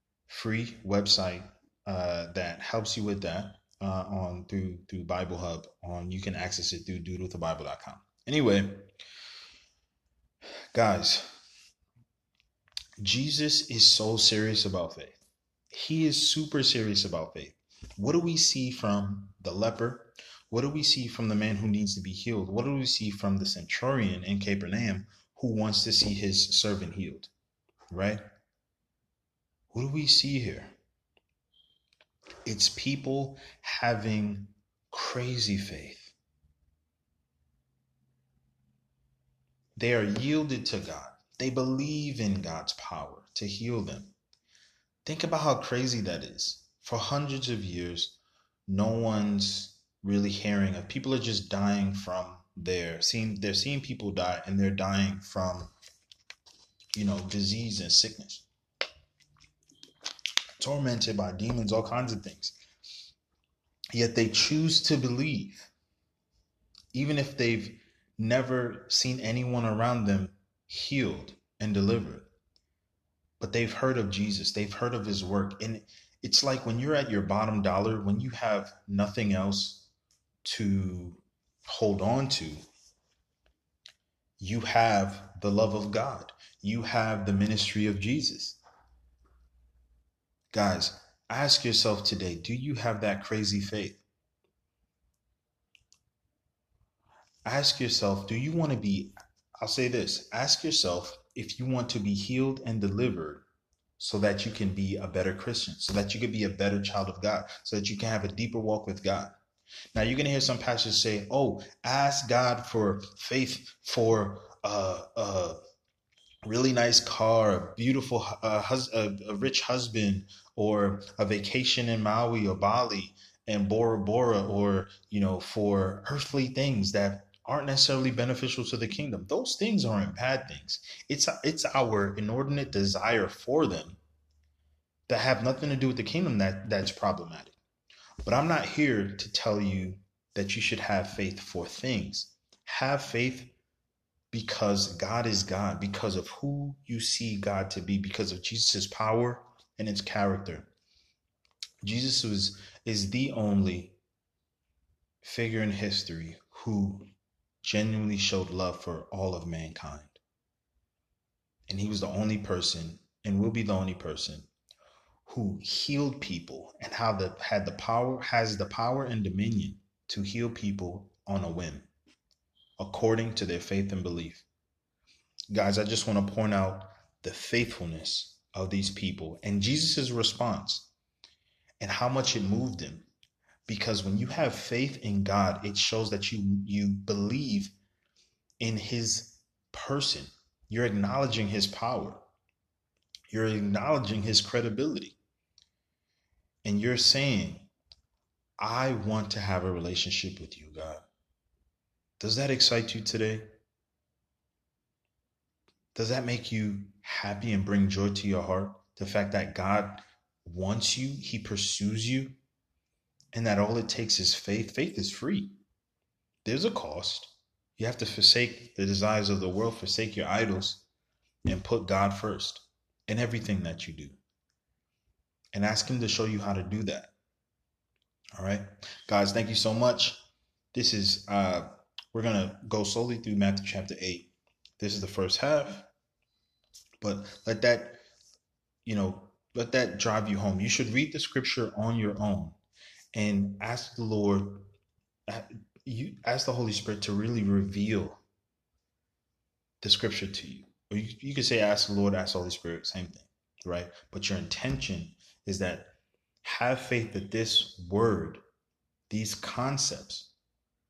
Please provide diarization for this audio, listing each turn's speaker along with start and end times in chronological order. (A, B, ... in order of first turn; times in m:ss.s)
0:00.3-0:08.9 A
0:10.7-0:11.3 A
0:13.0-0:15.2 A
0:15.7-0:27.3 A
0:27.9-0:28.2 A
0:29.7-0:30.8 A
0:32.4-0:36.2 A
0:39.8-0:44.1 A
0:45.0-0:55.7 A
0:56.9-0:58.5 A
1:00.6-1:02.6 A
1:03.9-1:05.6 A
1:06.9-1:12.3 A
1:13.4-1:19.9 A
1:20.4-1:22.6 A
1:24.4-1:28.6 A
1:30.5-1:34.0 A
1:37.4-1:43.5 A
1:44.0-1:49.3 A
1:49.9-1:55.6 A
1:56.4-2:14.0 A
2:15.1-2:17.6 A
2:18.2-2:23.6 A
2:24.3-2:30.7 A
2:31.8-2:34.0 A
2:35.2-2:37.1 A
2:37.6-2:40.2 A
2:41.7-2:44.5 A
2:45.3-2:51.9 A
2:52.8-2:54.5 A
2:55.5-3:00.9 A
3:01.8-3:03.1 A
3:03.7-3:07.7 A
3:08.6-3:12.2 A
3:13.3-3:15.2 A
3:16.6-3:17.7 A
3:18.6-3:21.1 A
3:22.2-3:23.5 A
3:26.0-3:32.4 A
3:33.3-3:35.6 A
3:36.4-3:40.8 A
3:41.5-3:44.2 A
3:45.5-3:47.1 A
3:48.4-3:50.2 A
3:50.7-3:55.9 A
3:57.0-3:58.0 A
3:58.8-4:02.6 A
4:03.1-4:04.7 A
4:05.3-4:08.2 A
4:09.8-4:18.4 A
4:19.1-4:20.3 A